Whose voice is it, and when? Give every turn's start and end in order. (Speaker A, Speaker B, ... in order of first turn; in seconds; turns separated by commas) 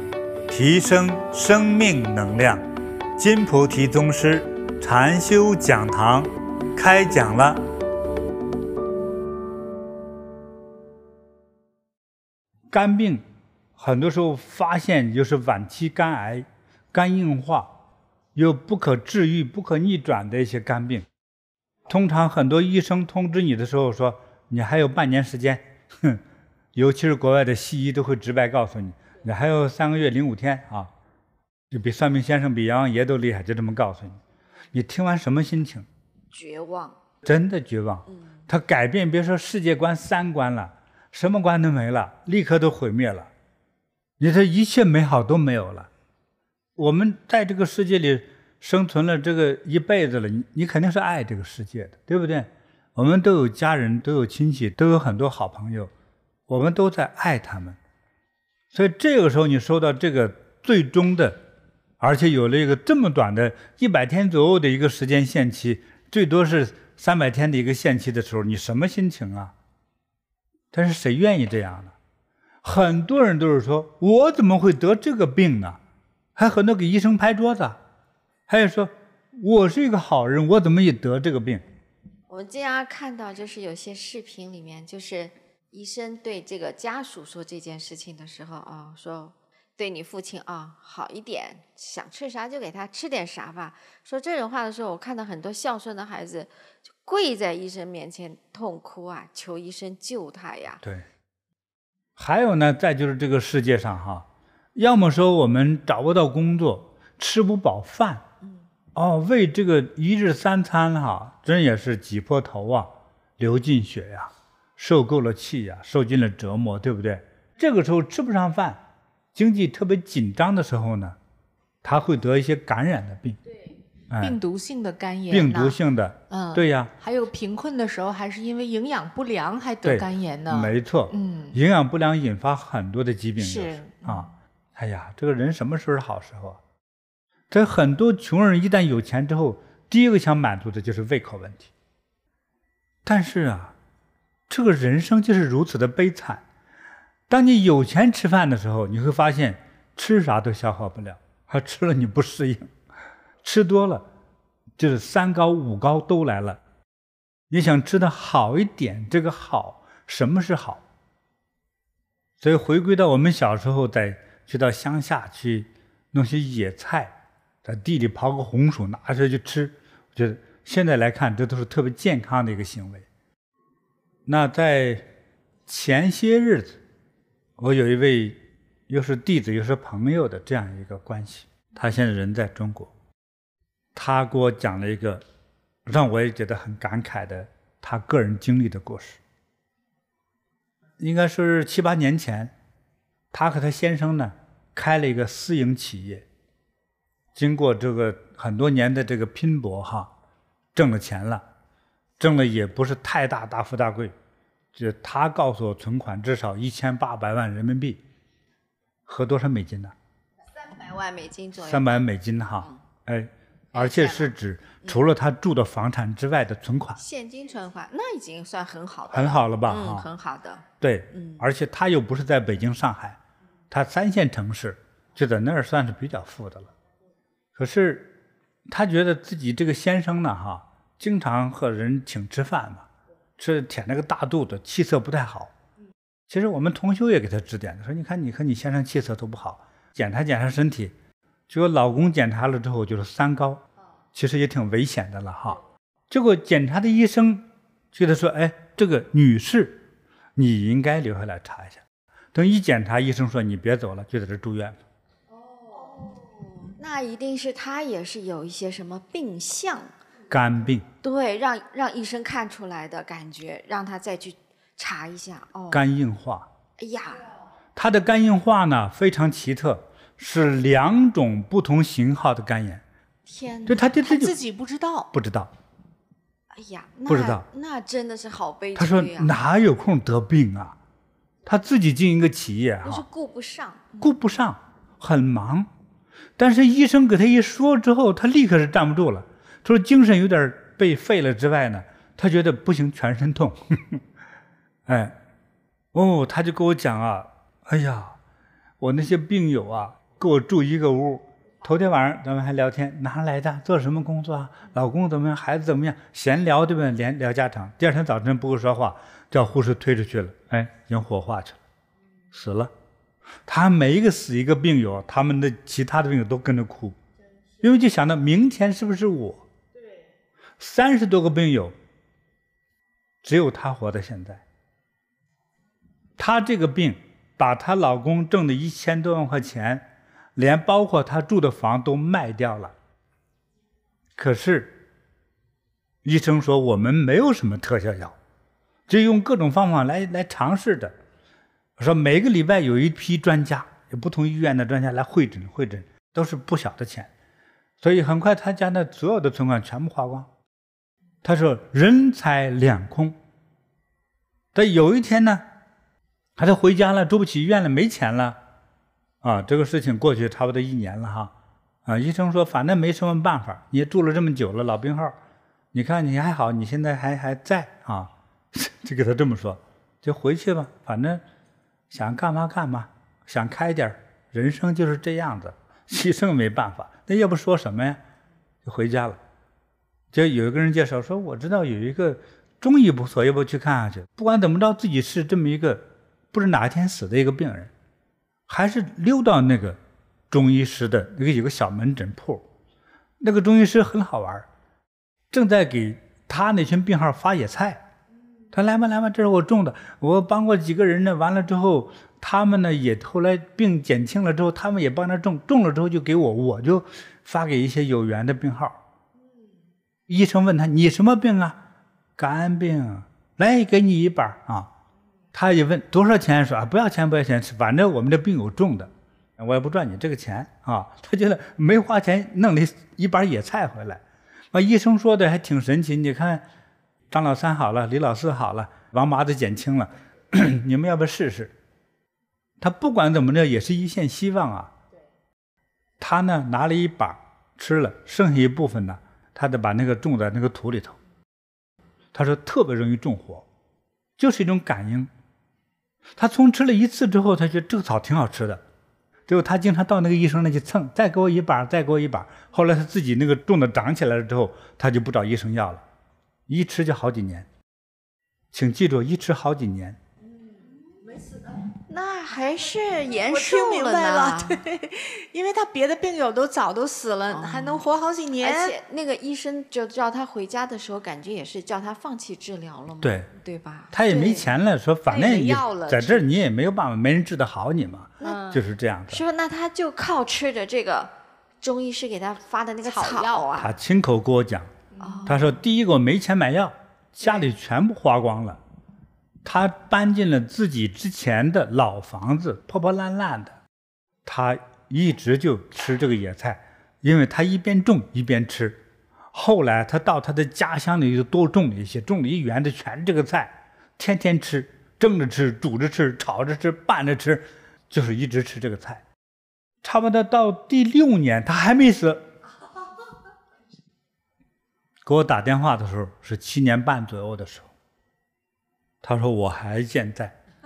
Speaker A: 0.5-2.6, Speaker A: 3.2-7.6, Speaker A: 12.7-13.2, Speaker A: 13.8-17.7, Speaker A: 18.3-21.1, Speaker A: 21.9-26.2, Speaker A: 26.7-30.9, Speaker A: 31.7-34.2, Speaker A: 34.7-35.9, Speaker B: 36.3-37.0, Speaker A: 37.2-43.3, Speaker A: 44.2-45.9, Speaker A: 46.8-55.9, Speaker A: 56.5-57.8, Speaker A: 58.7-61.4, Speaker A: 62.0-69.5, Speaker A: 70.7-71.9, Speaker A: 72.6-75.8, Speaker A: 76.3-77.8, Speaker A: 78.5-81.6, Speaker B: 82.3-100.8, Speaker A: 102.2-108.2, Speaker A: 108.9-118.8, Speaker A: 119.3-121.2, Speaker A: 121.8-123.4, Speaker A: 124.1-124.4, Speaker C: 124.2-125.8, Speaker A: 125.3-126.9, Speaker C: 126.3-131.6, Speaker A: 129.8-136.6, Speaker C: 133.4-134.3, Speaker A: 137.5-141.7, Speaker A: 143.0-143.7, Speaker A: 144.5-146.4, Speaker A: 147.3-152.7, Speaker A: 153.4-154.1, Speaker A: 154.8-156.6, Speaker A: 157.5-160.8, Speaker A: 162.4-173.1, Speaker A: 174.3-175.1, Speaker A: 175.7-176.8, Speaker A: 177.6-182.9, Speaker A: 183.9-185.2, Speaker A: 185.8-189.2, Speaker A: 191.0-192.5, Speaker A: 193.3-196.2, Speaker A: 197.3-200.1, Speaker A: 200.7-201.4, Speaker A: 202.2-204.1, Speaker A: 204.7-208.0, Speaker A: 209.1-209.9, Speaker B: 210.5-212.1, Speaker A: 211.6-217.0, Speaker B: 213.7-215.0, Speaker B: 217.0-221.4, Speaker A: 219.1-220.1, Speaker A: 220.8-223.2, Speaker A: 223.7-226.7, Speaker A: 227.6-228.1, Speaker A: 228.7-232.9, Speaker A: 233.4-235.5, Speaker A: 236.3-240.9, Speaker A: 241.5-249.8, Speaker A: 250.3-251.8, Speaker A: 252.3-254.8, Speaker B: 255.6-259.9, Speaker A: 260.3-260.9, Speaker B: 261.0-265.9, Speaker A: 265.7-266.5, Speaker B: 266.8-267.3, Speaker A: 267.8-272.8, Speaker B: 273.2-273.9, Speaker A: 273.6-274.4, Speaker C: 274.0-275.1, Speaker A: 275.1-275.5, Speaker B: 276.5-279.4, Speaker A: 277.1-277.4, Speaker A: 278.7-280.8, Speaker A: 281.4-283.0, Speaker B: 282.8-284.1, Speaker A: 284.0-285.7, Speaker A: 286.4-294.0, Speaker A: 294.9-295.1, Speaker A: 295.9-298.2, Speaker A: 298.8-311.6, Speaker A: 312.3-312.7, Speaker A: 313.5-317.0, Speaker A: 317.6-319.4, Speaker A: 320.6-321.7, Speaker A: 323.2-324.4, Speaker A: 326.2-332.7, Speaker A: 334.2-334.8, Speaker A: 336.0-338.1, Speaker A: 338.9-340.9, Speaker A: 341.8-347.1, Speaker A: 347.8-350.3, Speaker A: 351.2-353.1, Speaker A: 354.5-355.4, Speaker A: 356.4-358.4, Speaker A: 359.2-361.3, Speaker A: 361.9-365.2, Speaker A: 365.7-371.2, Speaker A: 371.9-378.0, Speaker A: 378.6-379.2, Speaker A: 380.1-387.7, Speaker A: 388.5-389.8, Speaker A: 390.3-392.4, Speaker A: 393.2-394.5, Speaker A: 395.3-397.8, Speaker A: 398.5-408.8, Speaker A: 410.1-411.6, Speaker A: 412.2-414.7, Speaker A: 415.3-426.4, Speaker A: 427.1-431.5, Speaker A: 432.6-434.7, Speaker A: 436.0-441.0, Speaker A: 442.1-443.4, Speaker A: 444.2-445.1, Speaker A: 446.2-448.6, Speaker A: 449.3-455.8, Speaker A: 456.5-457.5, Speaker A: 458.5-460.0, Speaker B: 461.9-464.6, Speaker C: 463.2-468.8, Speaker B: 467.3-467.8, Speaker B: 468.4-474.6, Speaker A: 473.0-473.3, Speaker A: 473.9-479.2, Speaker C: 475.1-476.2, Speaker C: 478.2-478.6, Speaker B: 479.1-483.8, Speaker C: 482.8-483.5, Speaker A: 483.6-484.7, Speaker C: 484.9-485.4, Speaker B: 485.0-485.6, Speaker A: 485.2-488.6, Speaker A: 489.4-493.6, Speaker A: 494.2-498.8, Speaker A: 499.3-509.0, Speaker A: 509.8-512.3, Speaker A: 515.0-517.7, Speaker A: 519.0-520.4